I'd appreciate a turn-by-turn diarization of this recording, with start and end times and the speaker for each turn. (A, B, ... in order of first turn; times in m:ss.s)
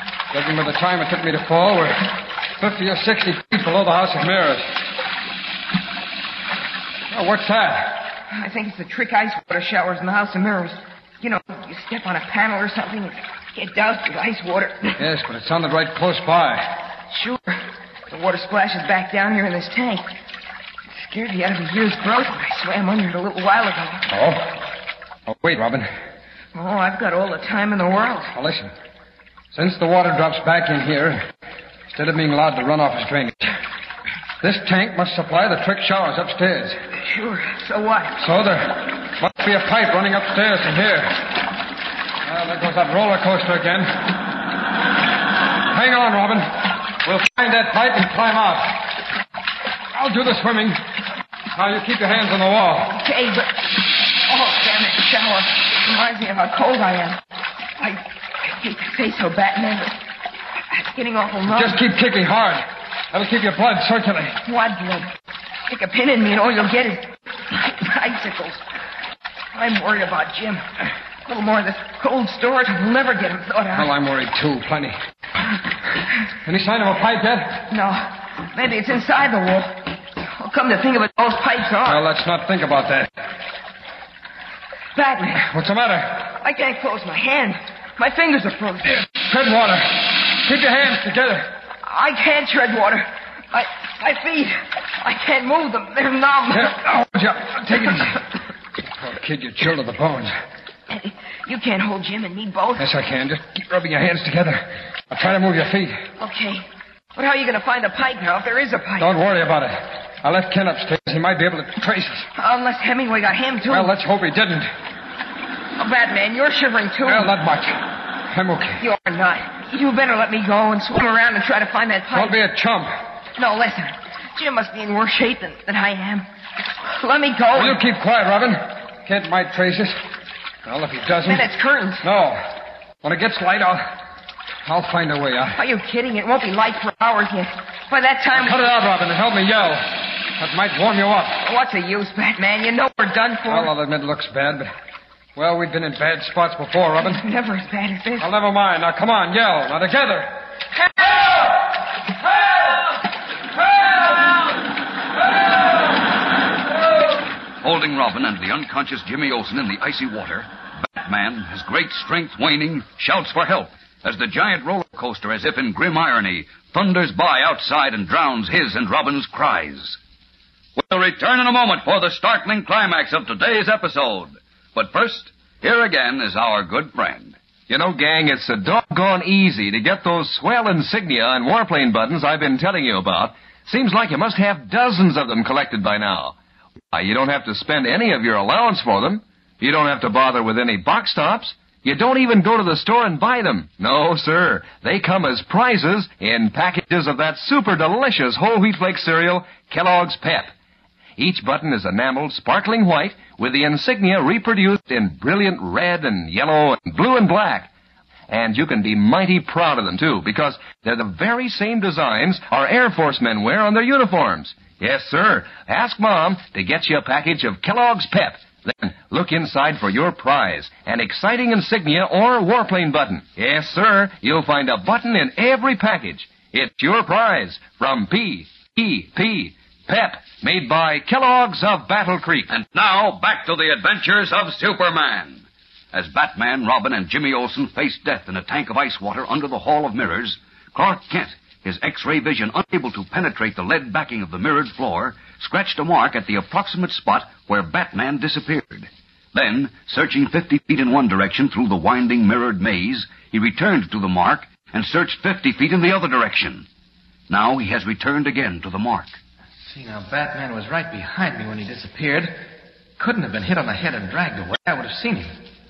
0:00.3-0:02.0 A
0:02.6-0:04.7 A
0:07.1-0:08.0 A
0:08.3-0:15.0 B
0:15.0-0:16.7 A
0:17.1-0:20.0 B
0:20.9-0:24.0 B
0:24.1-0:24.6 A
0:25.3-0:25.9 A
0:26.5-0:28.3 B
0:28.3-0:28.7 A
0:29.5-0:31.3 A
0:31.9-0:33.5 A
0:34.4-0:36.8 A
0:37.0-0:38.2 B
0:38.2-0:41.2 A
0:42.2-0:44.1 A
0:45.7-0:46.5 A
0:47.0-0:48.8 A
0:49.9-0:50.8 A
0:51.5-0:53.0 A
0:52.9-0:57.2 B
0:57.8-1:00.0 B
1:00.7-1:01.8 B
1:01.5-1:04.4 A
1:04.4-1:05.1 B
1:05.7-1:08.6 B
1:09.5-1:13.9 B
1:13.7-1:15.0 A
1:16.4-1:17.6 A
1:17.7-1:22.0 B
1:21.8-1:23.1 A
1:24.9-1:25.4 B
1:25.4-1:26.3 A
1:26.3-1:29.0 B
1:28.9-1:31.5 A
1:31.8-1:36.7 B
1:36.5-1:38.2 A
1:39.0-1:40.3 A
1:40.9-1:42.9 B
1:42.8-1:46.0 A
1:46.2-1:49.1 B
1:49.0-1:52.3 A
1:52.4-1:53.9 B
1:53.7-1:54.7 A
1:55.8-1:57.3 B
1:57.0-1:57.8 A
1:58.3-1:58.8 A
1:58.8-2:02.4 B
2:02.1-2:02.9 A
2:03.4-2:06.3 B
2:06.8-2:07.8 B
2:07.5-2:10.0 A
2:10.6-2:11.5 A
2:11.2-2:12.0 B
2:12.0-2:12.4 A
2:13.0-2:13.9 A
2:14.6-2:15.6 A
2:15.5-2:18.7 B
2:18.3-2:21.4 A
2:21.4-2:23.7 B
2:23.5-2:24.7 A
2:25.4-2:27.2 A
2:27.0-2:28.3 B
2:28.2-2:30.3 A
2:37.6-2:50.0 C
2:50.8-2:57.4 C
2:57.7-3:06.4 D
3:06.9-3:20.5 D
3:21.2-3:27.7 D
3:28.3-3:52.5 D
3:52.5-4:16.7 C
4:17.3-4:19.2 C
4:19.6-4:22.5 E
4:23.0-4:25.4 E